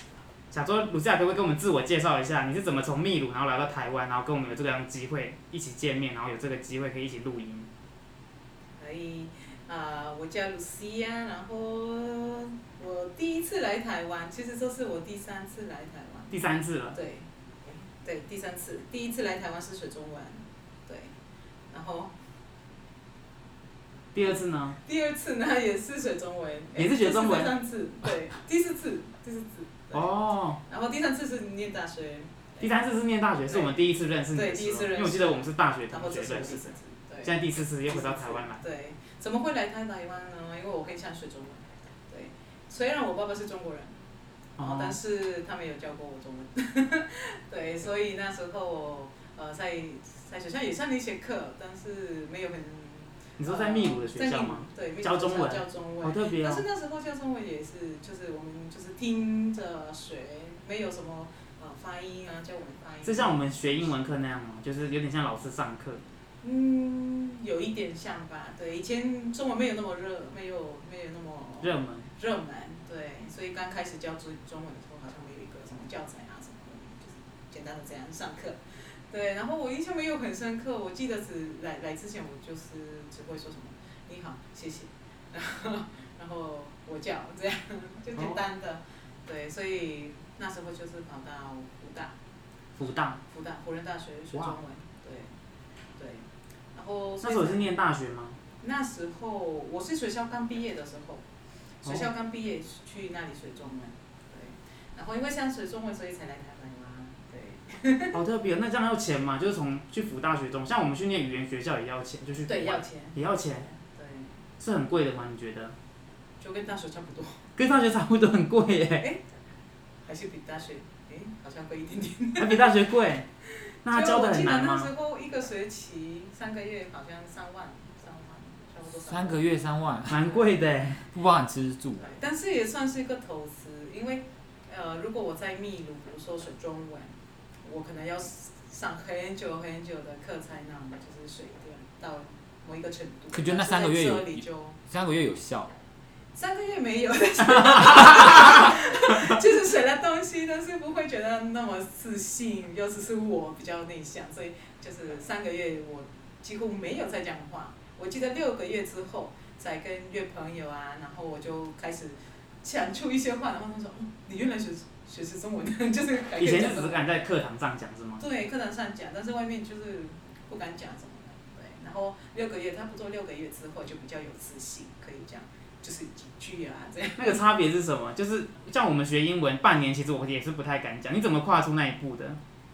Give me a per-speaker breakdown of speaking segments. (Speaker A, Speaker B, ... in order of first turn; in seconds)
Speaker A: 0.5-7.7, 16.3-17.0, 24.1-24.8, 26.8-27.6, 29.9-30.6, 32.6-38.6, 44.6-45.0, 53.4-56.6, 63.0-66.0, 71.6-72.1, 88.1-88.4, 92.8-93.2, 97.2-98.4, 108.1-113.7, 114.6-115.7, 117.5-119.0, 122.3-123.2, 123.8-124.9, 130.1-131.1, 166.4-168.2, 177.2-182.4
Speaker B: 8.8-16.3, 16.9-21.1, 21.7-22.1, 24.8-32.7, 33.5-33.8, 34.3-44.0, 44.6-63.9, 66.4-92.1, 93.2-95.4, 96.0-97.7, 98.6-101.2, 101.8-108.2, 112.5-114.4, 116.4-117.5, 120.0-122.7, 123.5-129.4, 132.0-144.8, 146.3-167.0, 168.2-177.4
Speaker C: 129.1-130.3, 131.1-132.1, 143.3-145.7